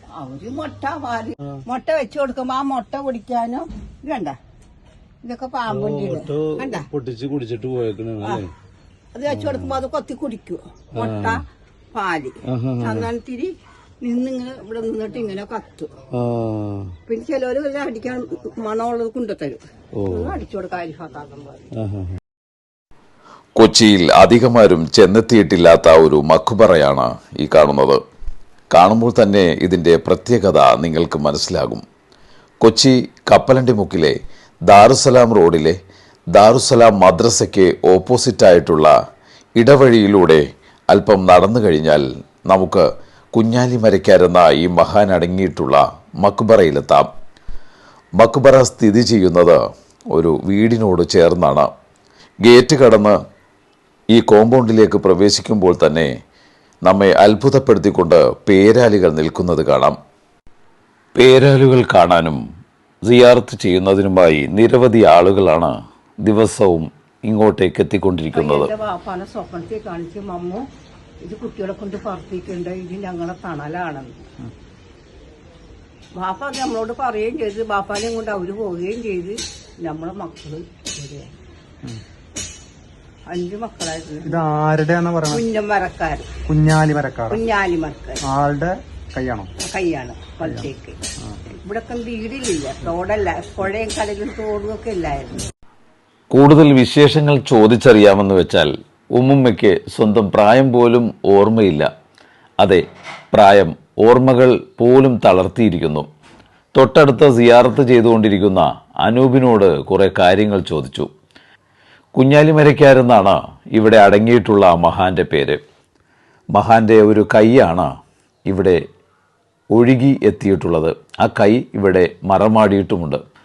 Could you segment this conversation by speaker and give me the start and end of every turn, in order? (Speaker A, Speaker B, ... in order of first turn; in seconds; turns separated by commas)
Speaker A: 0.1-4.3, Speaker A: 5.2-6.9, Speaker B: 5.7-8.5, Speaker A: 9.1-15.9, Speaker B: 9.3-9.7, Speaker B: 10.9-11.4, Speaker B: 12.5-13.1, Speaker B: 16.1-16.9, Speaker A: 17.1-21.7, Speaker B: 19.9-20.3, Speaker B: 21.8-22.1, Speaker C: 23.6-28.0, Speaker C: 28.7-31.8, Speaker C: 32.6-35.8, Speaker C: 36.3-38.9, Speaker C: 39.6-47.1, Speaker C: 48.2-49.6, Speaker C: 50.1-51.7, Speaker C: 52.4-53.1, Speaker C: 54.1-56.1, Speaker C: 56.8-60.0, Speaker C: 61.1-62.4, Speaker C: 63.0-65.7, Speaker C: 66.2-68.7, Speaker A: 68.3-70.7, Speaker A: 71.2-74.1, Speaker A: 76.2-81.3, Speaker A: 83.3-84.4, Speaker D: 84.2-85.4, Speaker A: 85.3-86.3, Speaker D: 86.5-87.4, Speaker A: 87.3-88.2, Speaker D: 88.3-89.5, Speaker A: 89.6-91.0, Speaker A: 91.6-95.5, Speaker C: 96.3-101.9, Speaker C: 102.6-106.1, Speaker C: 106.7-111.1, Speaker C: 112.2-115.6, Speaker C: 116.5-117.9, Speaker C: 118.5-118.8, Speaker C: 119.7-123.2